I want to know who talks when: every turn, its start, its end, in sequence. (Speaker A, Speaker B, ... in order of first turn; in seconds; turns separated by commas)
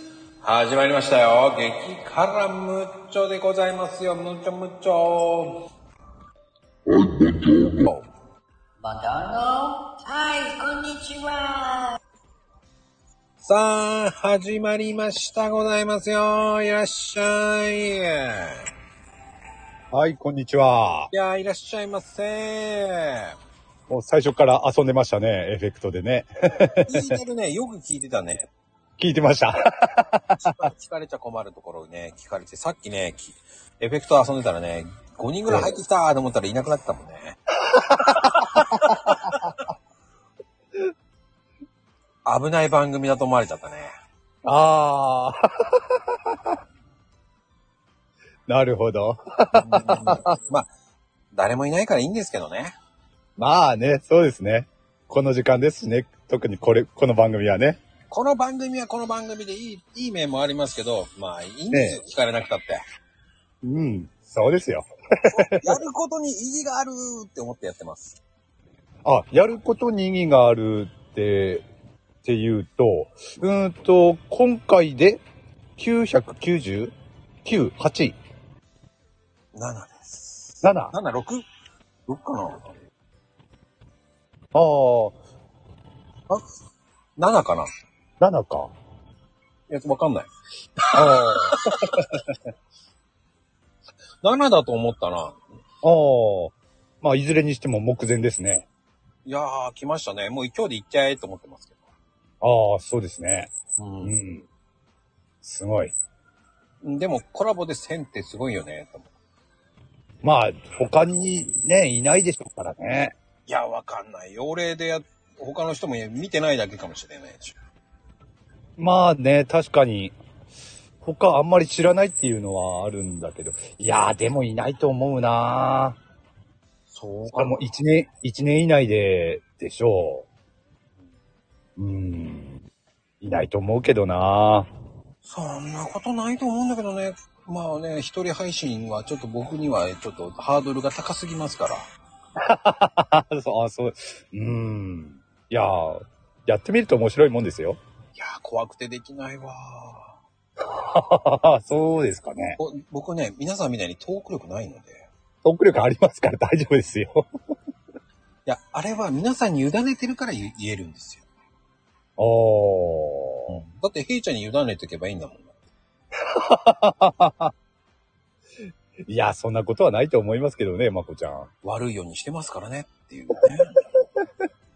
Speaker A: 0.4-5.7, Speaker A: 7.5-8.1, Speaker B: 8.8-12.0, Speaker A: 13.4-18.6, Speaker C: 19.9-21.1, Speaker A: 21.1-23.3, Speaker C: 23.9-27.1, Speaker A: 26.8-28.5, Speaker C: 29.0-30.5, Speaker A: 30.3-37.4, Speaker C: 37.6-39.5, Speaker A: 38.2-39.4, Speaker A: 42.2-43.9, Speaker C: 44.4-46.6, Speaker C: 48.5-50.3, Speaker A: 49.5-50.7, Speaker A: 51.3-52.7, Speaker C: 53.4-57.8, Speaker A: 58.1-62.8, Speaker C: 61.7-62.0, Speaker C: 63.6-65.8, Speaker A: 65.3-68.2, Speaker C: 69.0-71.6, Speaker C: 72.2-75.2, Speaker C: 75.8-76.9, Speaker C: 77.4-78.2, Speaker A: 79.5-81.4, Speaker C: 80.6-80.9, Speaker A: 82.1-82.7, Speaker C: 84.5-85.2, Speaker A: 87.2-87.7, Speaker C: 88.2-88.7, Speaker A: 89.7-92.1, Speaker C: 90.9-92.3, Speaker A: 94.2-95.4, Speaker C: 95.8-98.7, Speaker A: 99.2-101.8, Speaker C: 102.4-103.5, Speaker A: 103.8-104.2, Speaker C: 104.0-104.5, Speaker C: 105.4-105.9, Speaker A: 106.8-109.1, Speaker C: 110.2-113.1, Speaker A: 113.5-117.6, Speaker C: 118.8-120.1, Speaker C: 121.0-126.0, Speaker A: 126.9-127.7, Speaker C: 127.3-130.3, Speaker C: 131.8-132.6, Speaker C: 133.2-134.7, Speaker A: 135.2-141.8, Speaker C: 142.4-147.8, Speaker A: 148.2-150.2, Speaker C: 150.6-152.6, Speaker A: 152.6-155.1, Speaker C: 155.4-157.2, Speaker A: 158.4-161.2, Speaker C: 162.2-163.6, Speaker A: 163.5-165.5, Speaker C: 166.1-167.5, Speaker C: 169.1-171.5, Speaker A: 171.6-173.8